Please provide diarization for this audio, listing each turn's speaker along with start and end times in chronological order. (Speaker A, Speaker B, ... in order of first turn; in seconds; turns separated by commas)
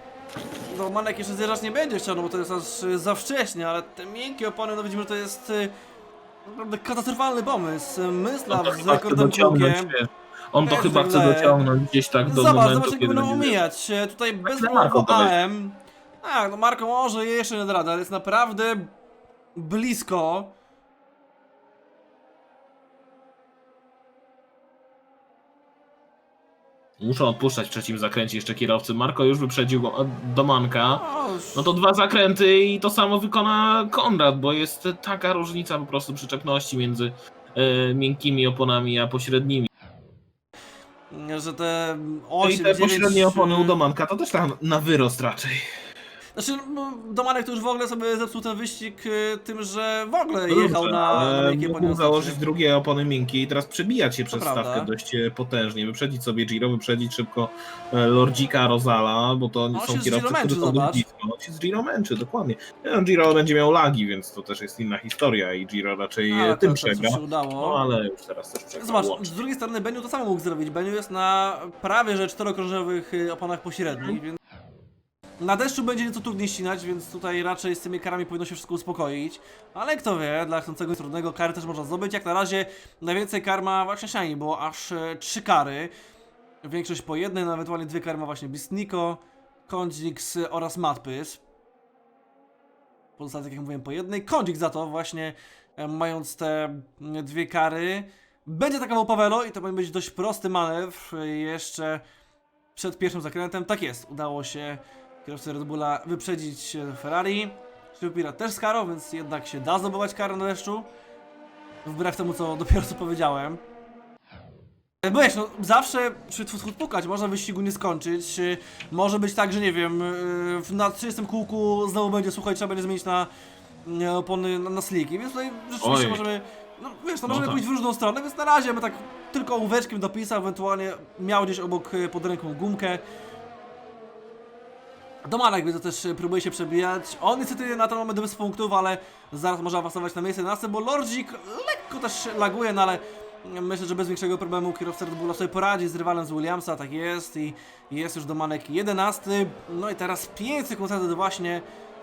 Speaker A: 0.7-5.7, Speaker A: 6.5-9.9, Speaker B: 8.5-13.5, Speaker A: 10.6-11.6, Speaker A: 12.2-18.9, Speaker B: 14.4-15.3, Speaker A: 19.6-20.5, Speaker B: 27.0-39.7, Speaker A: 31.0-31.7, Speaker A: 41.1-43.8, Speaker B: 42.4-45.6, Speaker A: 46.4-52.4, Speaker B: 50.5-69.3, Speaker A: 54.3-54.9, Speaker A: 59.7-61.0, Speaker A: 66.3-67.8, Speaker A: 68.7-74.4, Speaker B: 73.9-74.2, Speaker A: 75.4-85.9, Speaker A: 86.6-91.4, Speaker A: 93.2-102.0, Speaker A: 102.7-110.9, Speaker A: 111.8-113.6, Speaker A: 115.0-123.3, Speaker A: 123.8-133.0, Speaker B: 125.8-126.2, Speaker B: 127.2-127.6, Speaker A: 135.2-151.6